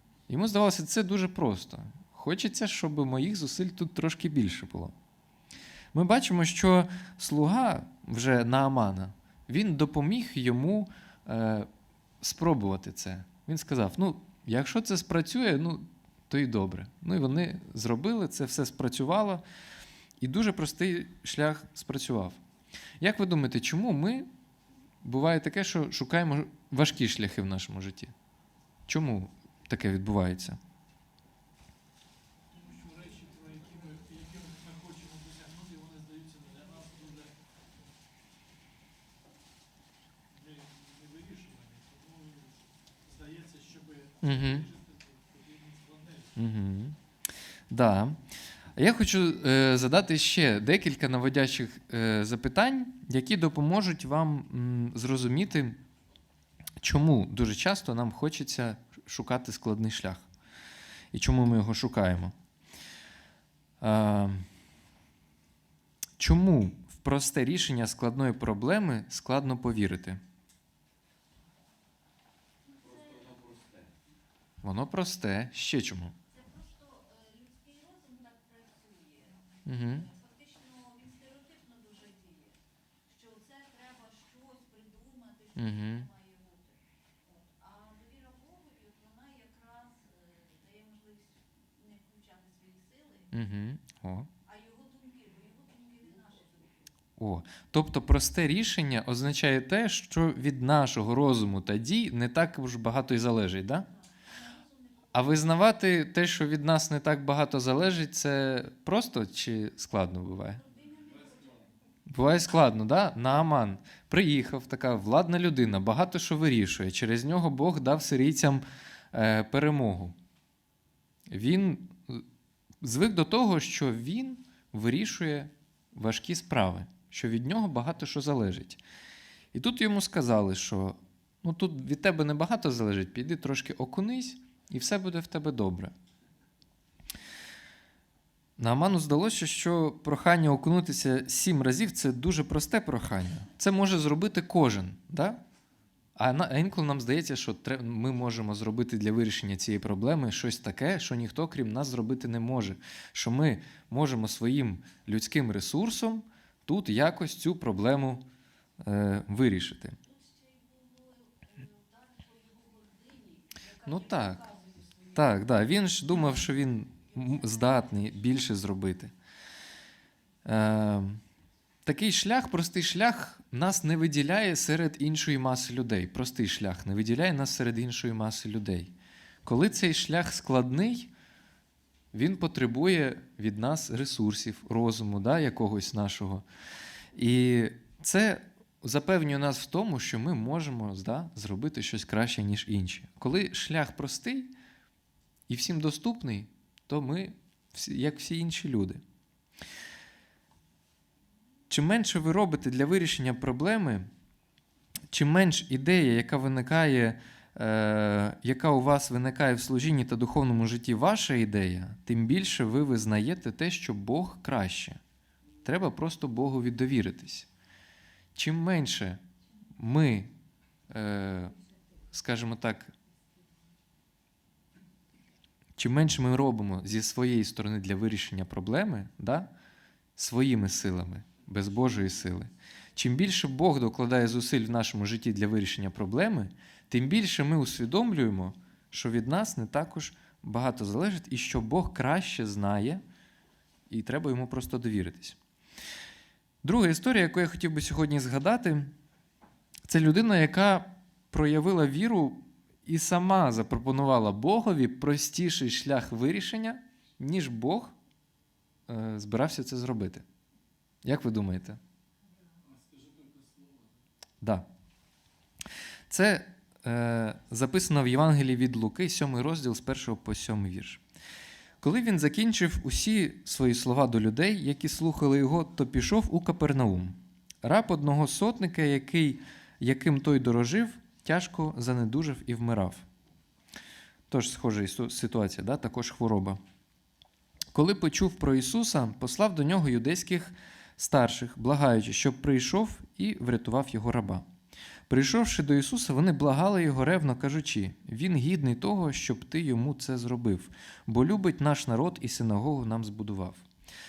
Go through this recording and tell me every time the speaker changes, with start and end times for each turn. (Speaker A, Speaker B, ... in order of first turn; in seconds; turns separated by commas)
Speaker A: 0.3-4.9, Speaker A: 5.9-11.7, Speaker A: 12.2-19.4, Speaker A: 20.2-22.4, Speaker A: 23.0-24.3, Speaker A: 25.0-28.1, Speaker A: 28.9-30.6, Speaker B: 32.5-37.6, Speaker B: 40.3-46.3, Speaker A: 44.2-44.7, Speaker A: 46.4-47.0, Speaker A: 47.7-48.2, Speaker A: 48.8-55.8, Speaker A: 56.8-60.3, Speaker A: 61.1-62.3, Speaker A: 63.8-64.4, Speaker A: 66.2-70.2, Speaker C: 72.7-73.6, Speaker A: 74.6-76.2, Speaker C: 76.3-93.3, Speaker A: 79.7-80.1, Speaker A: 85.5-86.1, Speaker A: 93.3-94.3, Speaker C: 94.5-96.9, Speaker A: 97.2-103.9, Speaker C: 103.9-105.5, Speaker A: 105.1-110.6, Speaker C: 110.5-111.7, Speaker A: 112.1-120.2, Speaker A: 121.3-122.2, Speaker A: 122.8-128.8, Speaker A: 129.5-135.9, Speaker A: 138.6-145.4, Speaker A: 146.2-158.3, Speaker A: 158.8-160.0, Speaker C: 160.0-168.3, Speaker A: 163.8-164.4, Speaker A: 165.1-169.1, Speaker A: 170.4-171.2, Speaker A: 171.8-178.9, Speaker A: 179.4-181.1, Speaker A: 182.1-186.4, Speaker A: 187.2-194.5, Speaker A: 195.5-199.0, Speaker A: 201.7-204.1, Speaker A: 205.1-215.0, Speaker A: 215.7-217.5, Speaker A: 218.3-219.2, Speaker A: 219.8-220.3, Speaker A: 220.9-221.6, Speaker A: 222.1-222.9, Speaker A: 225.8-229.5, Speaker A: 230.2-243.0, Speaker A: 243.9-245.4, Speaker A: 246.6-248.9, Speaker A: 249.9-257.9, Speaker A: 258.9-260.2, Speaker A: 261.0-261.8, Speaker B: 262.6-263.9, Speaker A: 264.4-264.7, Speaker A: 266.1-271.0, Speaker A: 271.8-283.1, Speaker A: 284.3-286.6, Speaker A: 287.7-294.4, Speaker A: 295.1-303.6